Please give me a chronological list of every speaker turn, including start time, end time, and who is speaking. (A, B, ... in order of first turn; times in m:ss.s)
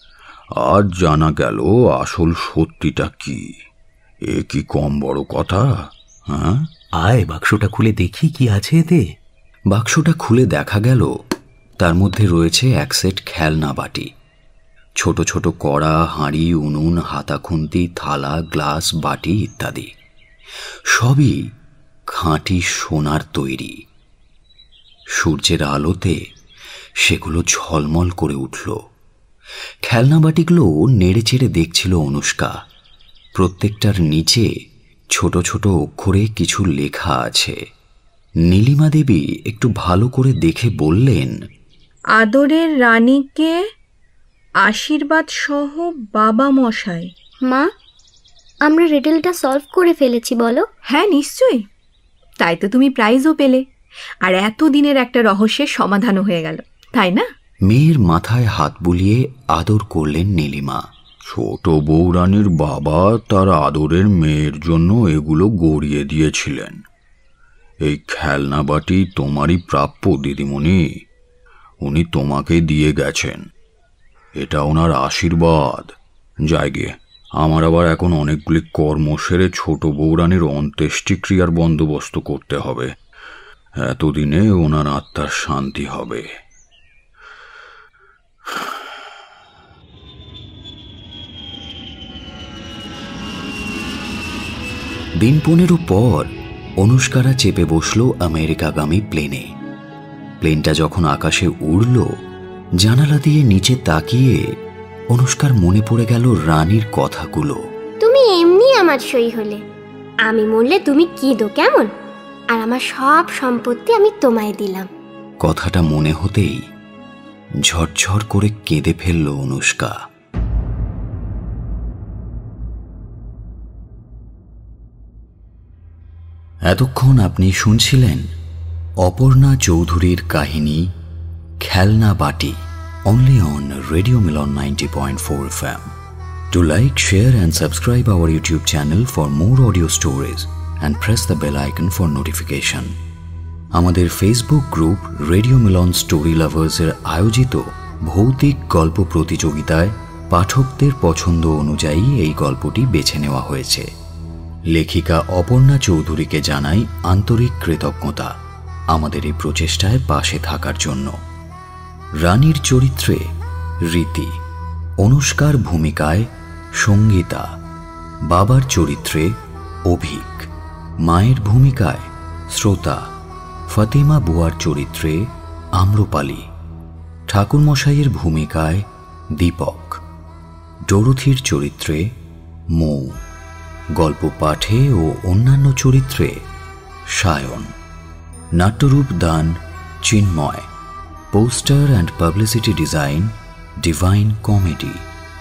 0:00.6-0:03.5 A
0:04.3-0:06.7 A
0:07.0-0:09.0 B
0:09.7-0:11.1 C
0:11.8-0:14.1 C
0:15.0-0:19.9 C
0:20.9-0:21.5 C
0:22.1-0:23.8 C
0:25.2-0:26.2 C
0:27.0-0:28.8 C
0:29.8-0:32.5 C
0:33.3-0:34.5 C
0:35.1-0:37.6 C
0:38.4-0:41.3 C
0:42.2-0:43.6 D
0:44.6-0:47.1 D
0:48.6-0:50.6 E
0:50.9-0:51.6 D
0:52.4-0:53.6 D
0:54.2-0:57.2 D
0:57.7-1:00.8 C
1:01.3-1:06.8 A
1:07.8-1:10.9 A
1:11.8-1:13.5 A
1:14.4-1:15.9 A
1:16.5-1:22.9 A
1:23.8-1:26.3 A
1:35.2-1:39.5 C
1:40.4-1:42.1 C
1:42.8-1:44.4 C
1:45.1-1:47.6 C
1:48.0-1:49.6 F
1:50.3-1:51.9 F
1:52.5-1:54.9 F
1:55.4-1:56.7 C
1:57.6-1:59.9 C
2:06.7-2:08.3 C
2:09.0-2:10.9 C
2:11.6-2:15.9 C
2:16.5-2:22.9 C
2:23.7-2:33.9 C
2:34.7-2:38.3 C
2:38.9-2:41.2 C
2:42.2-2:43.3 C
2:43.9-2:44.4 C
2:45.0-2:46.3 C
2:46.8-2:47.4 C
2:48.3-2:49.3 C
2:49.9-2:50.5 C
2:51.0-2:53.0 C
2:53.7-2:56.5 C
2:57.3-3:00.0 C
3:00.9-3:02.1 C
3:02.7-3:03.2 C
3:04.0-3:06.4 C
3:07.1-3:07.7 C
3:08.6-3:10.7 C
3:11.3-3:15.0 C